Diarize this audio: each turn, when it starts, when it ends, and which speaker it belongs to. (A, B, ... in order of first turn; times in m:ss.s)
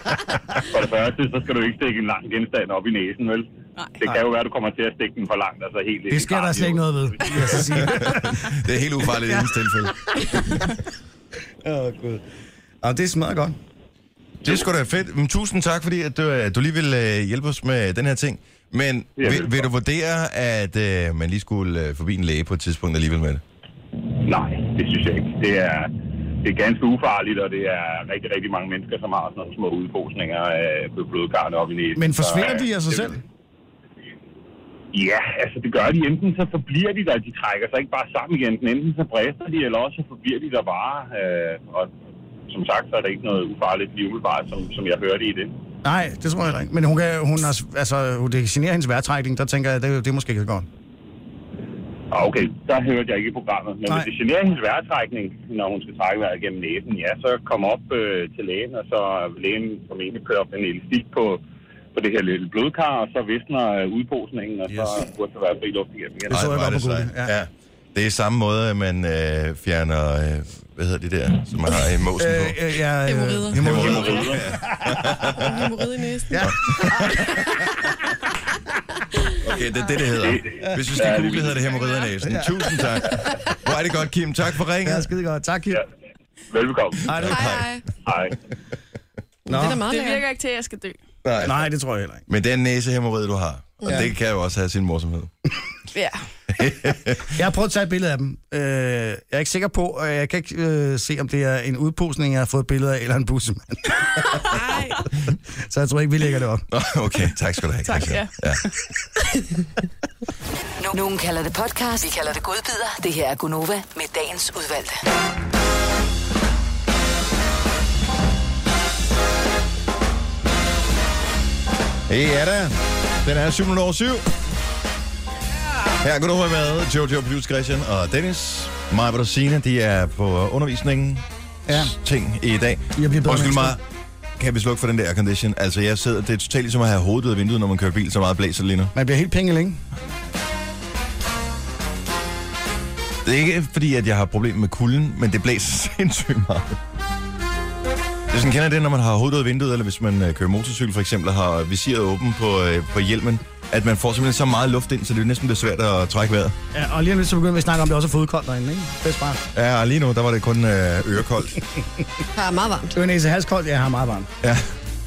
0:00.6-0:03.5 A
0:04.0-0:08.0 A
0:06.1-0:08.6 B
0:07.6-0:10.6 C
0:09.1-0:10.6 B
0:11.6-0:12.2 B
0:12.8-0:13.6 B
0:14.4-0:23.4 C
0:19.2-0:19.7 A
0:24.2-0:33.2 A
0:32.0-0:33.2 B
0:34.9-0:41.9 A
0:42.5-0:45.6 A
0:45.8-0:50.7 B
0:52.1-1:01.4 A
1:01.9-1:06.4 A
1:04.7-1:05.0 B
1:06.3-1:07.3 B
1:06.3-1:12.7 C
1:12.2-1:15.6 B
1:13.1-1:14.0 D
1:13.5-1:15.6 C
1:13.8-1:14.5 A
1:15.4-1:17.5 D
1:16.3-1:17.4 B
1:16.5-1:17.5 C
1:19.4-1:25.1 C
1:20.1-1:21.8 A
1:20.6-1:20.9 B
1:22.2-1:22.7 B
1:24.8-1:25.8 B
1:26.5-1:27.2 A
1:27.1-1:27.4 B
1:27.2-1:27.7 C
1:27.3-1:27.9 D
1:28.0-1:28.4 A
1:29.5-1:29.8 B
1:29.5-1:30.2 D
1:29.6-1:31.0 E
1:31.2-1:31.6 C
1:31.4-1:32.2 B
1:32.3-1:35.3 C
1:35.9-1:36.3 E
1:36.5-1:37.3 C
1:37.3-1:44.4 B
1:44.5-1:44.9 D
1:45.6-1:46.7 B
1:46.7-1:48.6 C
1:47.8-1:48.6 E
1:50.8-1:55.0 F
2:02.1-2:04.3 C
2:06.0-2:13.8 C
2:11.7-2:11.9 B
2:13.0-2:13.8 B
2:14.4-2:18.9 C
2:18.9-2:19.8 B
2:23.2-2:26.8 C
2:28.3-2:36.6 C
2:36.7-2:39.4 B
2:39.5-2:41.6 C
2:42.4-2:43.0 D
2:42.9-2:44.3 B
2:44.4-2:44.7 C